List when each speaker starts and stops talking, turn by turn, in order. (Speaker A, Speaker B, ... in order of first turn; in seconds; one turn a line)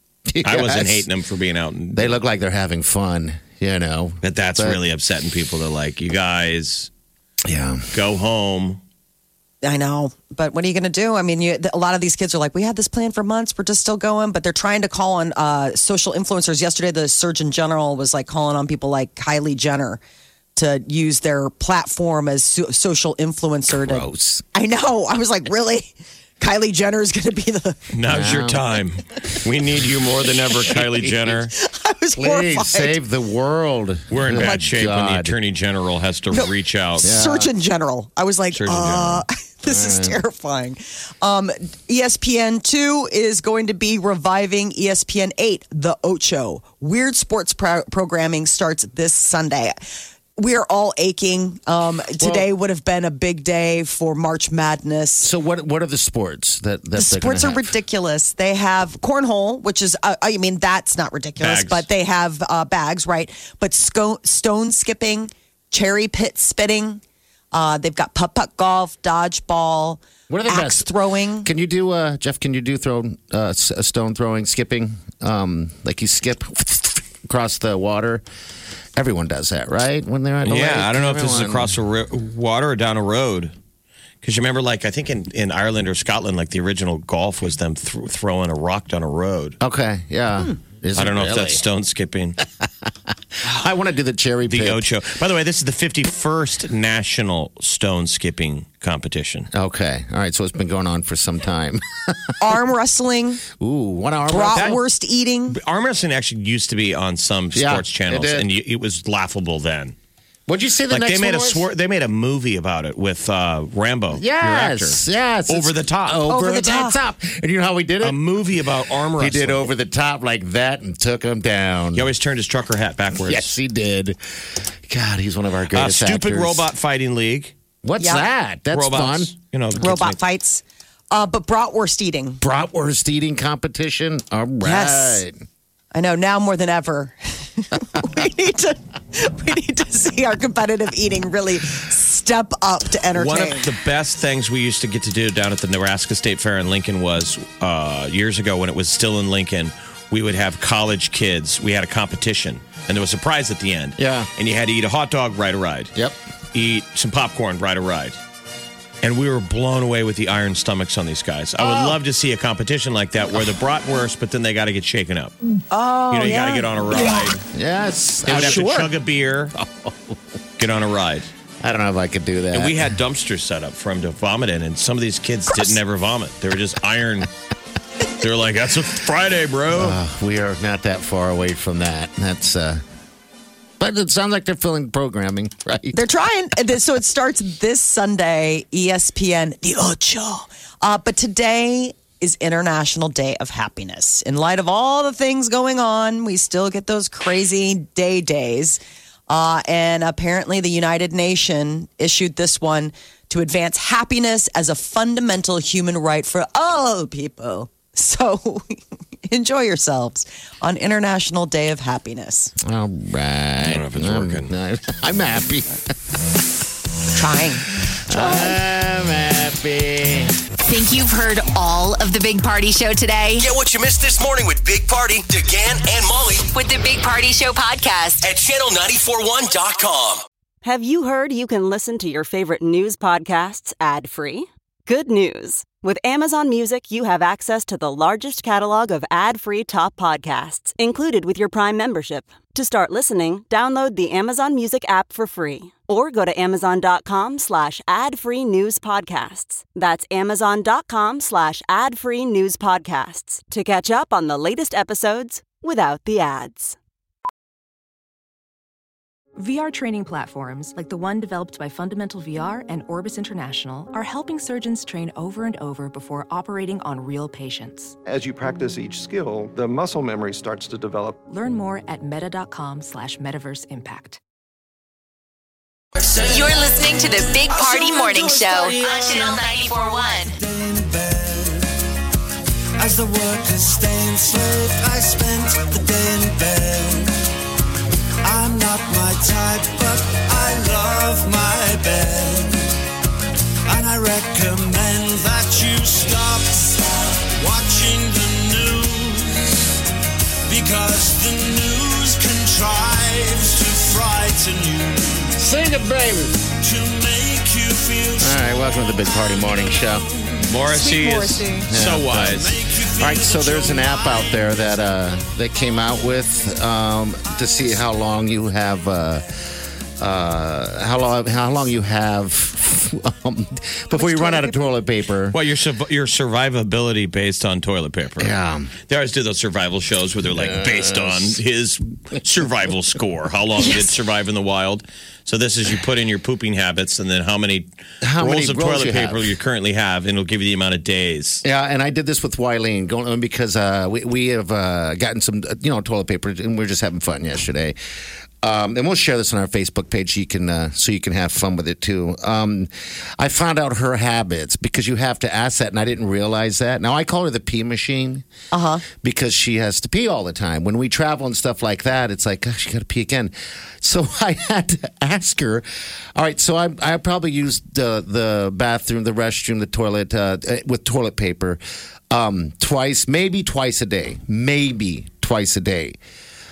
Speaker A: 0.3-1.1
Speaker B: 0.4-2.2
Speaker A: 1.9-4.8
Speaker B: 4.2-6.9
Speaker A: 7.5-7.9
Speaker B: 7.9-8.8
Speaker C: 9.6-20.0
Speaker C: 20.5-27.8
Speaker A: 23.7-24.4
Speaker B: 27.9-31.5
Speaker A: 28.1-28.6
Speaker A: 30.7-31.4
Speaker C: 31.5-33.0
Speaker A: 32.2-35.3
Speaker B: 34.1-37.1
Speaker A: 37.0-37.5
Speaker C: 37.0-49.8
Speaker B: 38.5-39.2
Speaker A: 39.6-40.2
Speaker C: 50.4-55.3
Speaker A: 52.2-52.5
Speaker A: 55.2-57.7
Speaker C: 57.0-67.0
Speaker B: 61.4-61.9
Speaker C: 67.5-71.5
Speaker A: 70.3-78.2
Speaker A: 79.0-81.7
Speaker B: 80.5-83.5
Speaker B: 84.2-89.6
Speaker A: 89.6-91.6
Speaker B: 90.9-92.4
Speaker A: 93.4-94.8
Speaker B: 94.5-99.5
Speaker A: 99.5-102.3
Speaker C: 102.4-103.4
Speaker A: 103.6-104.7
Speaker C: 104.3-105.6
Speaker B: 104.5-104.8
Speaker B: 105.5-109.9
Speaker A: 107.5-108.5
Speaker A: 110.5-111.7
Speaker B: 110.9-116.2
Speaker A: 114.1-118.2
Speaker C: 116.3-117.0
Speaker B: 118.0-119.7
Speaker A: 119.2-122.1
Speaker B: 121.9-123.6
Speaker A: 123.1-124.2
Speaker A: 124.9-126.7
Speaker B: 125.7-127.5
Speaker A: 127.8-129.3
Speaker C: 128.0-128.2
Speaker B: 128.7-130.2
Speaker C: 129.8-132.4
Speaker A: 132.4-135.3
Speaker C: 134.6-135.2
Speaker C: 135.9-143.7
Speaker B: 143.1-155.9
Speaker A: 154.0-154.3
Speaker B: 156.5-158.2
Speaker B: 159.0-165.3
Speaker C: 165.7-167.3
Speaker B: 166.1-167.4
Speaker A: 167.5-168.9
Speaker B: 168.2-169.5
Speaker A: 169.5-170.2
Speaker B: 170.6-171.3
Speaker A: 171.6-172.9
Speaker B: 172.5-177.3
Speaker B: 178.2-180.0
Speaker A: 179.7-182.8
Speaker A: 183.8-186.0
Speaker C: 185.9-212.5
Speaker A: 212.6-215.8
Speaker B: 213.6-214.5
Speaker C: 217.1-218.5
Speaker A: 218.1-220.4
Speaker D: 220.6-223.5
Speaker E: 223.4-226.5
Speaker D: 226.5-228.2
Speaker E: 228.2-230.2
Speaker F: 230.6-256.8
Speaker G: 259.4-267.9
Speaker H: 268.0-271.2
Speaker G: 271.3-274.2
Speaker D: 276.2-280.4
Speaker I: 277.5-279.4
Speaker I: 280.3-281.7
Speaker I: 282.8-287.1
Speaker I: 288.2-292.7
Speaker I: 293.7-299.7
Speaker I: 300.5-305.4
Speaker A: 305.4-306.4
Speaker I: 306.5-310.3
Speaker A: 308.2-310.0
Speaker B: 310.4-312.5
Speaker C: 310.7-311.7
Speaker A: 311.7-319.3
Speaker I: 312.2-314.6
Speaker A: 320.0-325.4
Speaker C: 323.9-324.6
Speaker B: 325.3-328.3
Speaker A: 328.2-328.7
Speaker B: 328.9-337.6
Speaker A: 330.3-331.4
Speaker C: 333.6-333.9
Speaker A: 338.0-339.3
Speaker B: 338.2-341.4
Speaker A: 341.4-347.8
Speaker A: 348.4-358.2
Speaker C: 358.5-358.8
Speaker A: 358.9-376.0